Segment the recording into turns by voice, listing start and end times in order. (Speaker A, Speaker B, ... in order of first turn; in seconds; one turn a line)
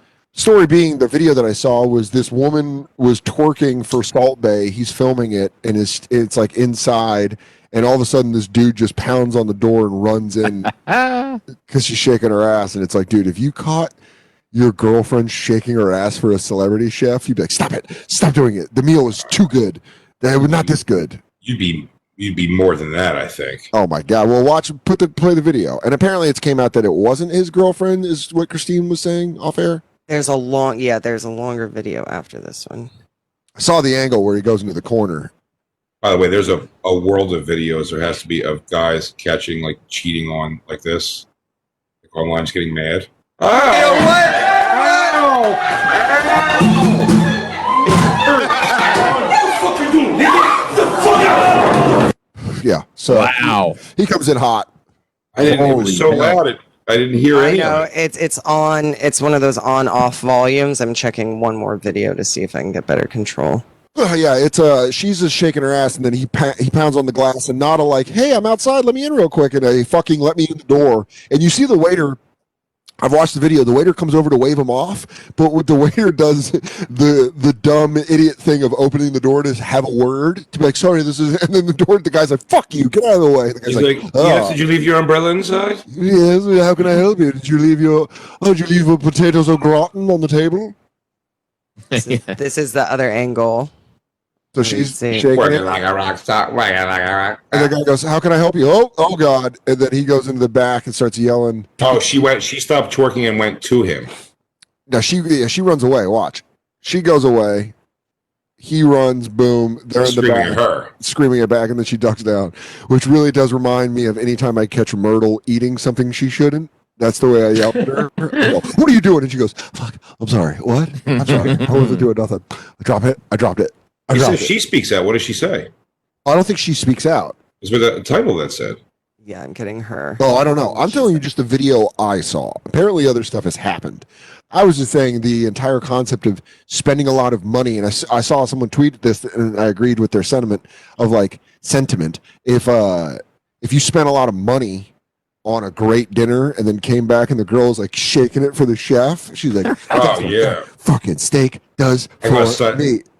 Speaker A: 0.3-10.7
Speaker B: 10.7-11.4
Speaker A: 11.7-13.9
Speaker A: 14.5-21.2
Speaker C: 21.4-23.7
Speaker A: 23.7-29.8
Speaker D: 30.1-32.9
Speaker A: 33.6-35.3
Speaker C: 36.0-41.2
Speaker C: 42.0-47.2
Speaker C: 47.9-52.0
Speaker A: 52.5-54.7
Speaker B: 53.1-53.8
Speaker C: 55.3-57.9
Speaker B: 55.4-56.4
Speaker D: 57.3-63.6
Speaker A: 63.9-72.2
Speaker A: 73.0-84.6
Speaker C: 83.7-85.8
Speaker A: 85.9-90.7
Speaker B: 91.9-92.2
Speaker D: 91.9-93.7
Speaker A: 94.5-95.6
Speaker D: 94.6-95.3
Speaker C: 95.3-97.7
Speaker A: 97.5-101.8
Speaker C: 101.8-104.1
Speaker A: 104.9-107.7
Speaker A: 108.6-124.5
Speaker C: 110.0-110.9
Speaker B: 121.1-122.0
Speaker C: 124.1-125.7
Speaker A: 126.2-127.4
Speaker C: 127.6-128.8
Speaker D: 129.2-131.2
Speaker A: 130.2-144.9
Speaker A: 145.4-153.0
Speaker C: 149.9-150.7
Speaker C: 152.2-152.8